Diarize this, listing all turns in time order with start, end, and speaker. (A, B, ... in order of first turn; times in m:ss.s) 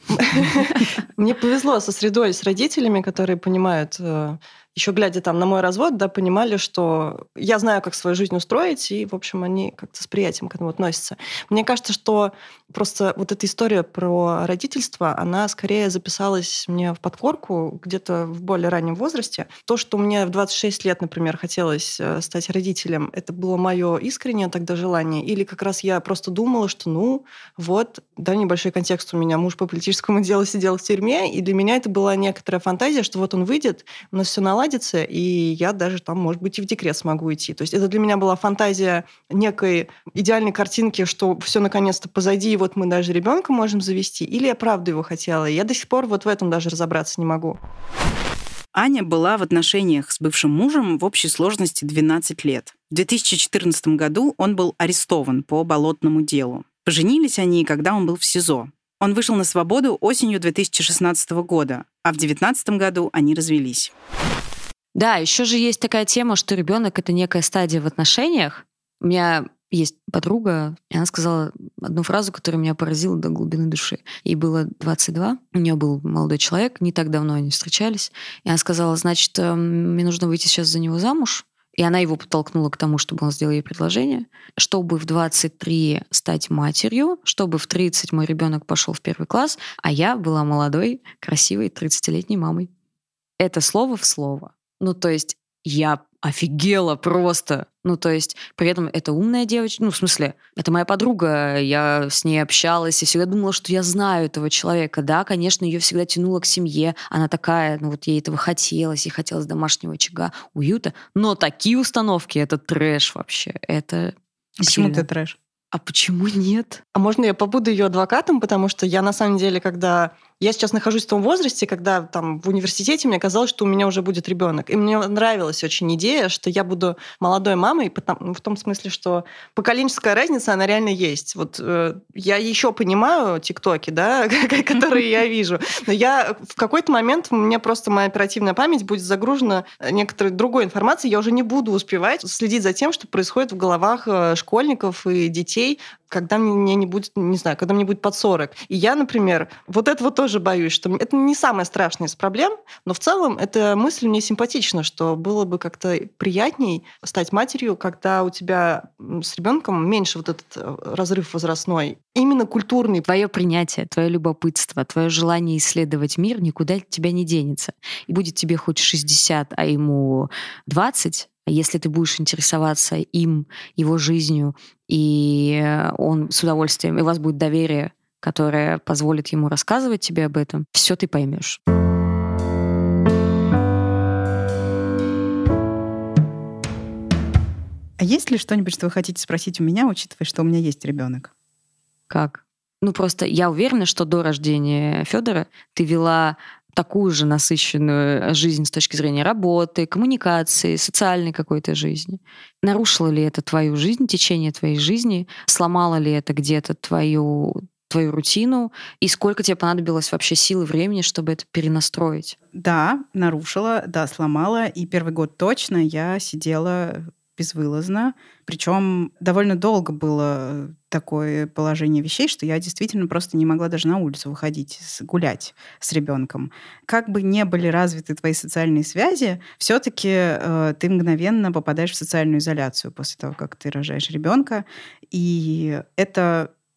0:00.1-0:47.6 A
0:48.7-1:03.9 B
1:04.9-1:32.7 C
1:33.4-1:55.0 C
1:54.6-1:55.4 B
1:55.7-1:56.8 C
1:56.9-2:43.0 A
2:43.0-3:01.6 C
3:08.0-3:11.3 B
3:12.1-3:32.4 C
3:32.5-3:56.5 B